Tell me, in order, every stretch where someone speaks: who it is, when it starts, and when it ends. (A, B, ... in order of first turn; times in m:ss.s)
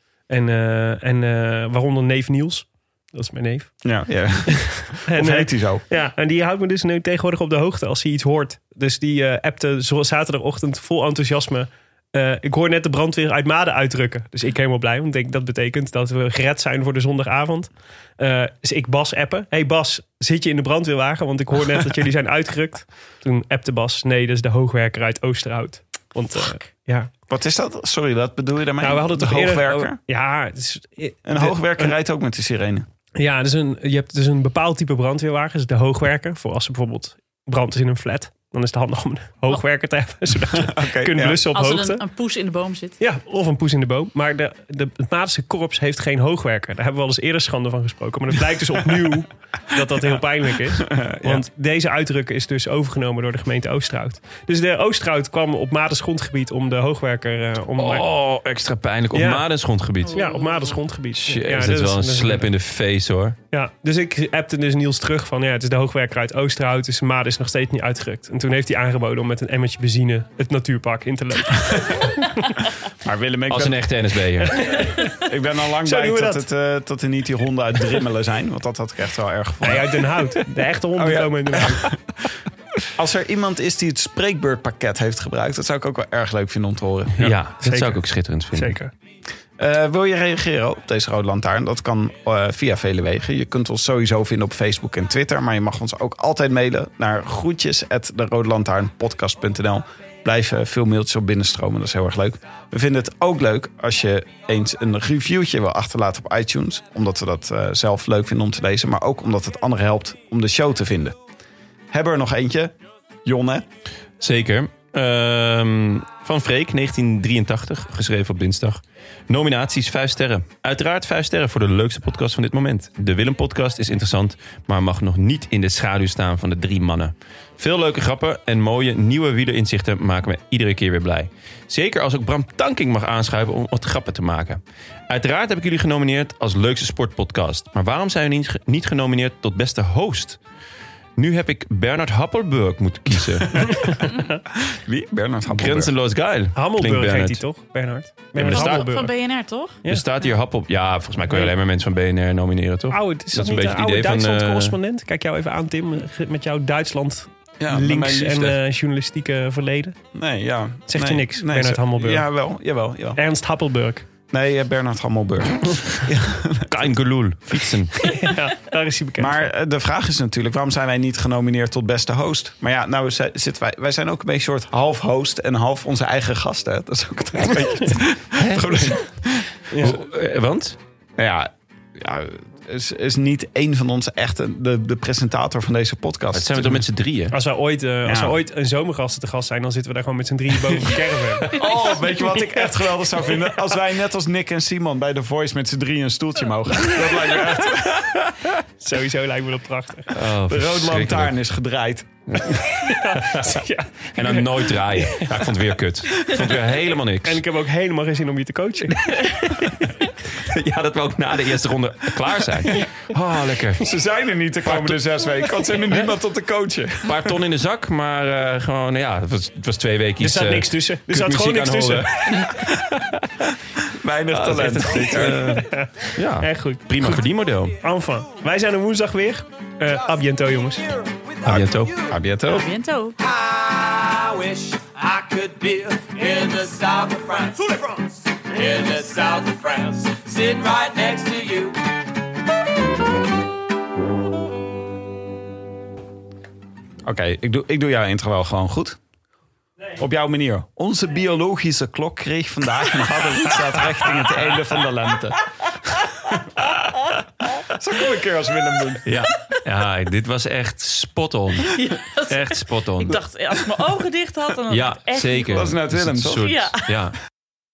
0:00.3-0:03.8 A
0:03.8-0:05.8 B
0:04.7-0:27.1 A
0:27.3-0:30.0 B
0:28.8-0:31.9 A
0:31.3-0:32.8 B
0:33.2-0:42.0 A
0:40.5-0:41.4 B
0:41.5-0:43.0 C
0:43.0-0:58.1 A
0:50.8-0:51.4 B
0:57.8-1:00.2 D
0:59.1-0:59.4 A
1:00.1-1:00.8 C
1:00.1-1:02.5 A
1:01.1-1:03.4 D
1:03.5-1:12.4 A
1:13.0-1:13.8 B
1:13.5-1:14.8 D
1:14.4-1:15.2 A
1:15.1-1:20.4 B
1:15.8-1:16.4 A
1:19.6-1:21.9 A
1:20.9-1:22.3 B
1:22.9-1:27.3 B
1:27.2-1:28.8 D
1:27.2-1:28.9 A
1:29.6-1:51.2 B
1:51.9-1:53.6 B
1:54.2-2:20.4 D
2:21.2-2:24.0 D
2:23.7-2:24.0 A
2:24.5-2:25.9 B
2:25.5-2:27.4 D
2:26.6-2:29.1 A
2:28.4-2:28.9 D
2:28.4-2:29.8 C
2:29.8-2:34.8 D
2:32.9-2:40.0 A
2:37.6-2:38.6 B
2:40.1-2:43.2 B
2:40.9-2:42.3 A
2:43.2-2:44.0 A
2:44.3-2:47.0 B
2:46.7-2:48.1 D
2:48.0-2:49.4 A
2:49.2-2:59.5 B
2:58.4-2:59.0 D
2:59.7-3:00.0 A
2:59.8-3:00.8 D
3:01.2-3:06.8 B
3:06.3-3:07.4 D
3:07.3-3:11.5 A
3:08.1-3:08.4 B
3:11.4-3:18.2 B
3:18.8-3:20.3 A
3:20.1-3:21.3 D
3:20.5-3:22.5 B
3:22.3-3:27.4 D
3:22.8-3:25.4 A
3:27.2-3:29.4 A
3:30.3-3:33.9 D
3:33.8-3:37.3 B
3:34.7-3:35.0 D
3:37.0-3:43.4 D
3:40.2-3:42.4 A
3:43.8-3:45.6 B
3:44.3-3:47.8 D
3:45.4-3:50.9 A
3:50.9-3:52.1 E
3:51.4-3:51.9 D
3:51.5-3:52.7 B
3:52.5-3:53.2 C
3:53.2-4:01.8 E
4:07.0-4:09.0 B
4:10.0-4:15.4 B
4:16.3-4:16.8 B
4:17.7-4:19.1 B
4:19.0-4:21.8 D
4:21.7-4:25.7 C
4:22.3-4:23.2 D
4:24.7-4:27.2 D
4:25.5-4:26.5 B
4:26.4-4:26.9 C